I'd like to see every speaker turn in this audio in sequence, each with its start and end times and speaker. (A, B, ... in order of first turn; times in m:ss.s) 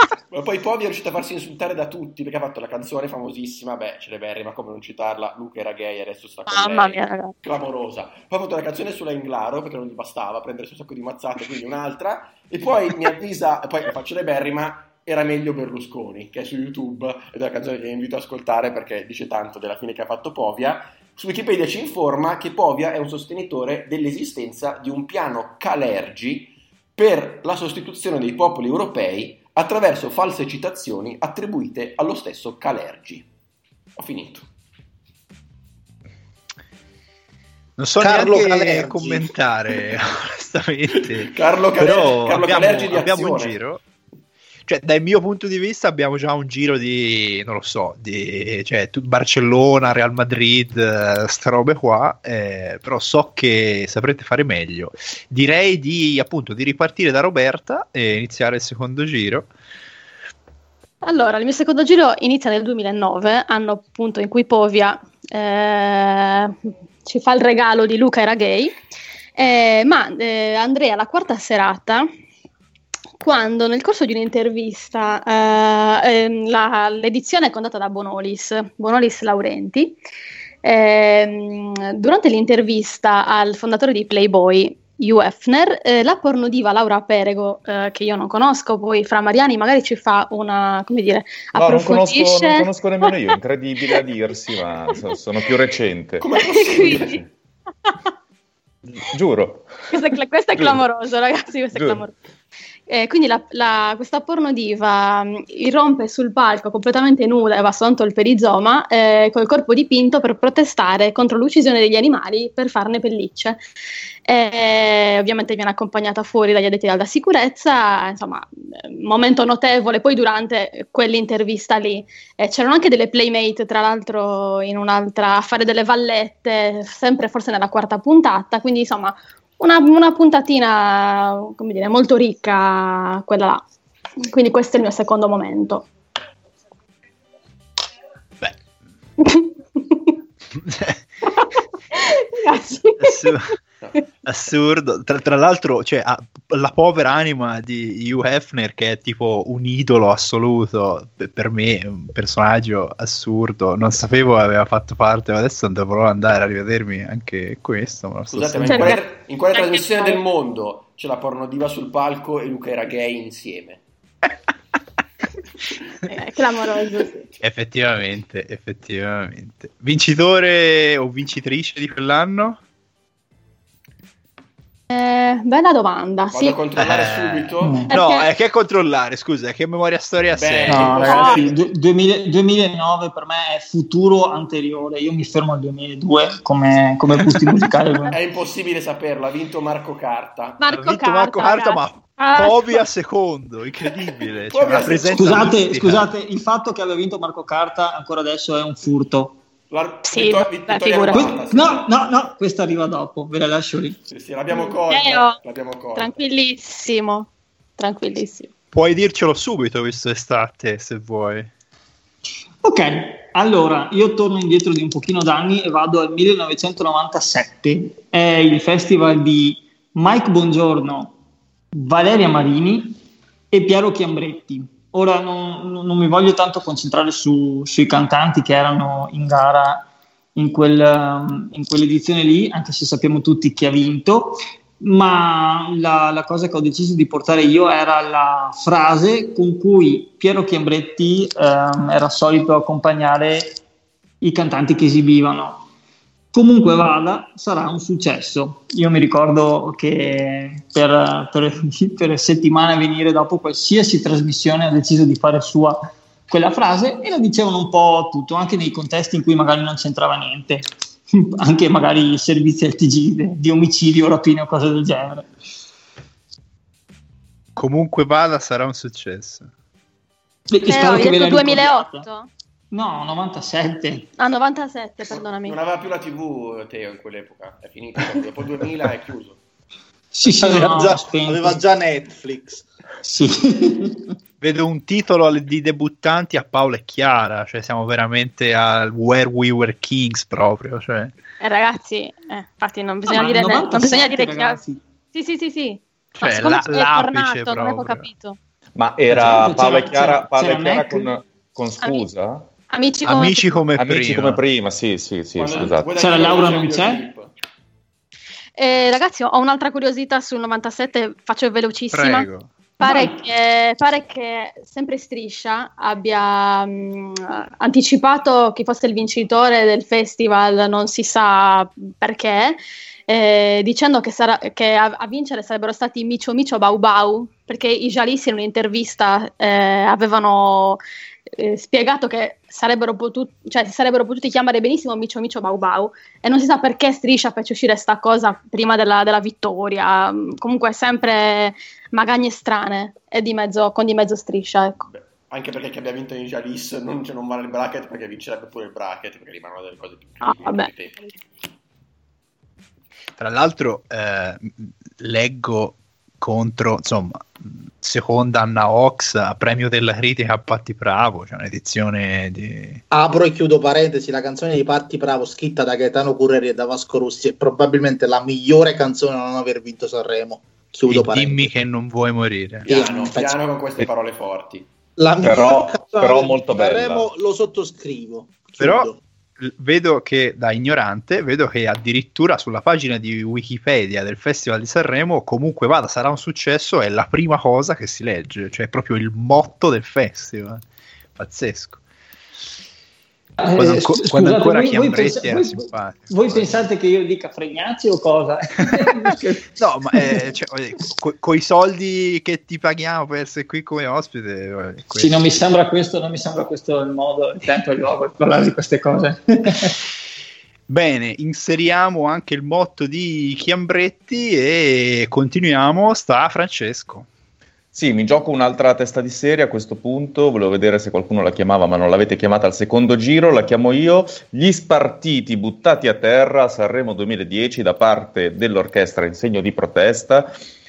0:00.3-0:33.3 A
0:06.5-0:07.3 B
0:34.0-0:34.5 A
0:37.8-0:43.8 C
0:38.0-0:39.3 D
0:41.0-0:43.6 A
0:44.7-0:59.5 C
1:01.0-1:08.7 B
1:09.4-1:12.1 B
1:13.2-1:20.0 B
1:20.6-1:33.1 B
1:31.6-1:37.2 E
1:36.2-1:37.2 A
1:36.4-1:37.2 B
1:38.9-1:39.7 E
1:39.9-1:42.2 B
1:41.8-1:42.0 E
1:42.9-1:53.6 B
1:54.3-2:13.6 B
2:14.2-2:15.9 B
2:19.2-2:20.0 B
2:20.6-2:21.0 C
2:21.9-2:23.4 B
2:23.0-2:23.5 C
2:24.2-2:39.0 C
2:38.3-2:43.8 A
2:38.7-2:40.2 B
2:46.1-2:47.2 B
2:47.4-2:52.6 C
2:54.9-2:56.6 B
2:56.3-2:57.9 A
2:56.8-3:01.0 C
2:57.6-2:57.9 F
2:57.9-2:58.3 B
3:00.3-3:01.6 A
3:00.7-3:08.2 F
3:01.0-3:01.4 B
3:08.1-3:10.6 A
3:10.6-3:12.8 B
3:10.7-3:16.1 C
3:14.5-3:15.6 A
3:15.1-3:19.4 F
3:19.7-3:21.9 A
3:20.0-3:21.3 B
3:21.1-3:24.0 F
3:24.1-3:26.2 A
3:24.5-3:25.4 B
3:26.0-3:28.5 B
3:28.7-3:31.5 C
3:32.6-3:41.1 F
3:41.7-3:43.0 F
3:43.5-4:03.6 F
4:04.2-4:05.7 F
4:06.3-4:25.3 F
4:27.6-4:29.5 C
4:30.5-4:32.1 F
4:30.7-4:32.3 B
4:32.7-4:34.1 F
4:34.2-4:35.6 B
4:35.4-4:39.4 A
4:40.1-4:41.6 F
4:40.4-4:42.6 D
4:43.0-4:44.0 F
4:44.4-4:51.1 C
4:51.4-4:54.6 B
4:53.1-4:54.8 F
4:55.1-4:58.4 B
4:56.2-4:58.1 C
4:58.8-5:02.5 E
4:59.1-5:01.1 F
5:02.7-5:03.6 B
5:03.0-5:04.4 C
5:03.8-5:06.2 E
5:05.4-5:07.3 A
5:06.0-5:07.0 F
5:08.6-5:12.3 B
5:11.9-5:12.5 C
5:12.8-5:30.8 B
5:12.8-5:13.2 F
5:31.3-5:44.8 B
5:44.8-5:51.1 A
5:50.2-5:50.7 B
5:53.2-6:02.8 C
6:02.9-6:11.5 D
6:10.9-6:12.7 C
6:12.7-6:14.7 A
6:12.7-6:13.4 D
6:15.0-6:19.0 D
6:15.2-6:17.0 E
6:18.6-6:18.9 C
6:19.4-6:30.6 C
6:31.2-6:31.8 C
6:33.4-6:39.4 F
6:33.6-6:36.6 C
6:39.6-6:45.2 C
6:45.0-6:49.8 F
6:50.7-6:57.1 C
6:57.7-7:10.3 E